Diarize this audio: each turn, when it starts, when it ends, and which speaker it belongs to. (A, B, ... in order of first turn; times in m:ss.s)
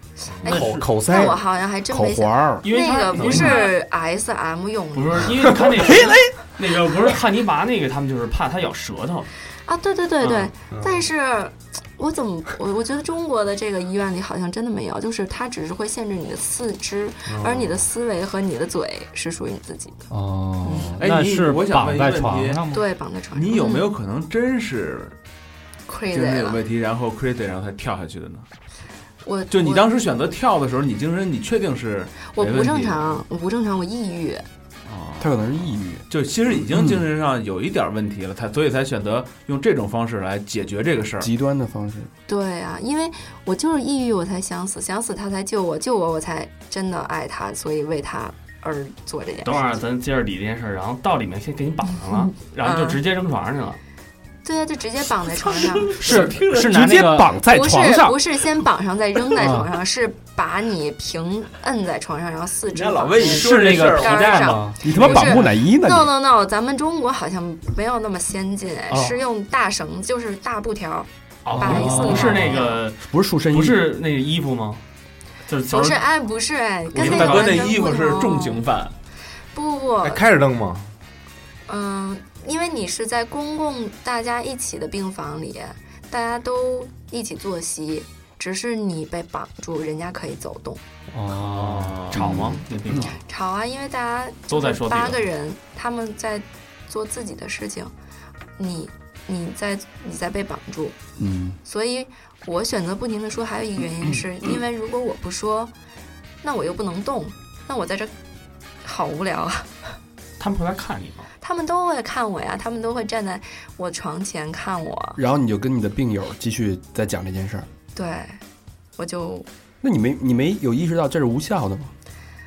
0:00.2-0:05.3 A
0:00.3-0:01.4 B
0:00.4-0:00.9 C
0:01.9-0:02.6 D
0:02.6-0:03.7 E
0:03.2-0:03.5 B
0:04.9-0:09.3 E
0:05.8-0:06.3 D
0:09.6-0:20.1 A
0:10.2-0:10.5 E
0:10.7-0:11.1 B
0:17.2-0:17.8 B
0:20.1-0:22.8 C
0:20.6-0:20.9 A
0:21.0-0:22.7 F
0:22.7-0:23.9 A
0:23.3-0:25.2 F
0:25.9-0:26.6 A
0:26.1-0:28.5 F
0:29.2-0:29.9 A
0:29.5-0:33.2 F
0:32.3-0:34.4 A
0:34.8-0:41.3 F
0:35.2-0:37.1 D
0:41.2-0:42.1 D
0:42.3-0:49.7 A
0:49.4-0:53.8 E
0:52.6-0:53.0 A
0:54.4-0:55.9 A
0:55.6-0:56.8 F
0:56.0-0:57.4 C
0:56.6-0:58.2 D
0:57.4-1:12.8 A
0:59.4-0:59.7 C
1:02.7-1:04.6 F
1:03.3-1:05.4 C
1:04.8-1:06.1 D
1:08.9-1:09.2 C
1:11.4-1:14.8 E
1:11.7-1:12.5 C
1:13.0-1:13.8 D
1:15.4-1:16.0 E
1:15.7-1:18.6 A
1:16.9-1:18.9 F
1:16.9-1:17.7 E
1:19.5-1:20.2 A
1:20.0-1:20.9 B
1:21.7-1:30.8 A
1:31.1-1:32.2 C
1:31.3-1:33.2 E
1:32.3-1:32.6 A
1:32.3-1:33.1 D
1:33.3-1:37.9 A
1:34.5-1:35.2 E
1:38.6-1:41.0 A
1:41.2-1:41.6 D
1:41.6-1:45.7 A
1:46.4-1:48.1 A
1:48.8-1:49.8 A
1:50.4-1:51.3 E
1:51.4-1:55.2 A
1:55.2-1:57.7 D
1:57.9-1:58.4 A
1:59.0-1:59.5 A
1:59.8-2:01.9 D